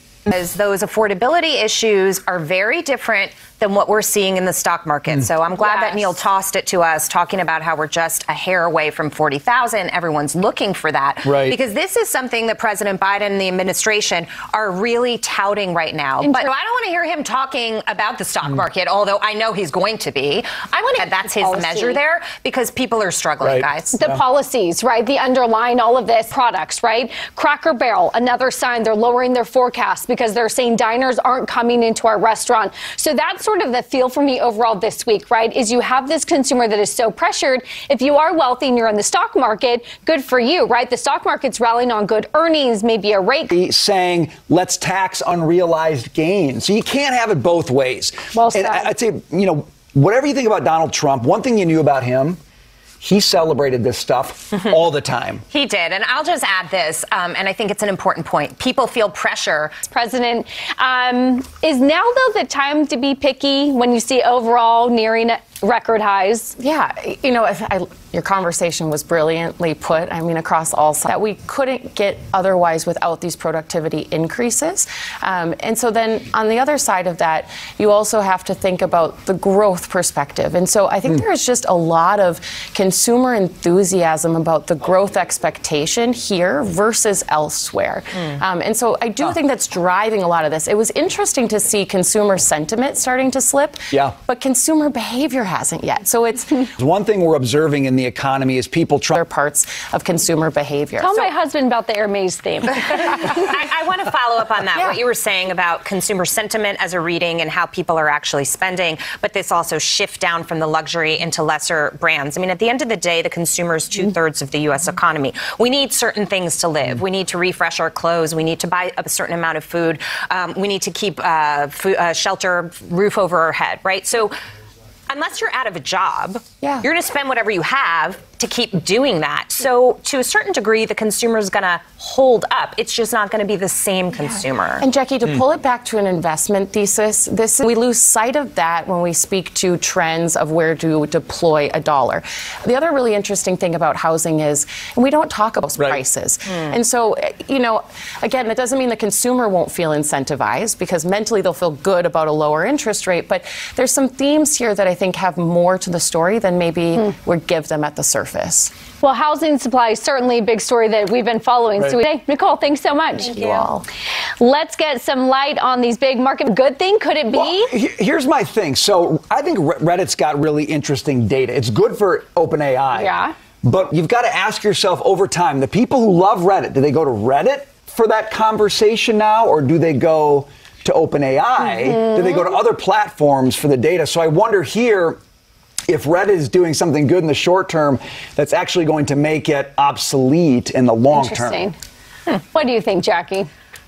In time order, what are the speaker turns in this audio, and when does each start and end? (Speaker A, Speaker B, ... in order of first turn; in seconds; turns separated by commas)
Speaker A: 0.3-24.0, Speaker B: 5.5-6.1, Speaker C: 11.2-11.6, Speaker B: 16.2-16.5, Speaker B: 21.4-22.0, Speaker C: 23.4-24.2, Speaker B: 23.9-43.5, Speaker C: 43.5-52.4, Speaker B: 48.3-48.9, Speaker C: 53.0-55.4, Speaker A: 55.5-59.8, Speaker B: 59.9-66.5, Speaker D: 66.6-96.7, Speaker C: 96.8-99.2, Speaker D: 99.1-101.2, Speaker B: 101.0-103.4, Speaker A: 102.7-124.3, Speaker A: 125.1-134.8, Speaker D: 126.6-126.9, Speaker D: 134.8-158.7, Speaker A: 146.5-146.7, Speaker B: 159.0-163.4, Speaker D: 163.2-163.8, Speaker A: 163.4-163.7, Speaker B: 164.4-167.7, Speaker C: 167.3-185.2, Speaker B: 172.9-173.3, Speaker B: 181.8-182.4, Speaker C: 185.9-191.7, Speaker B: 191.1-191.7, Speaker B: 192.5-193.5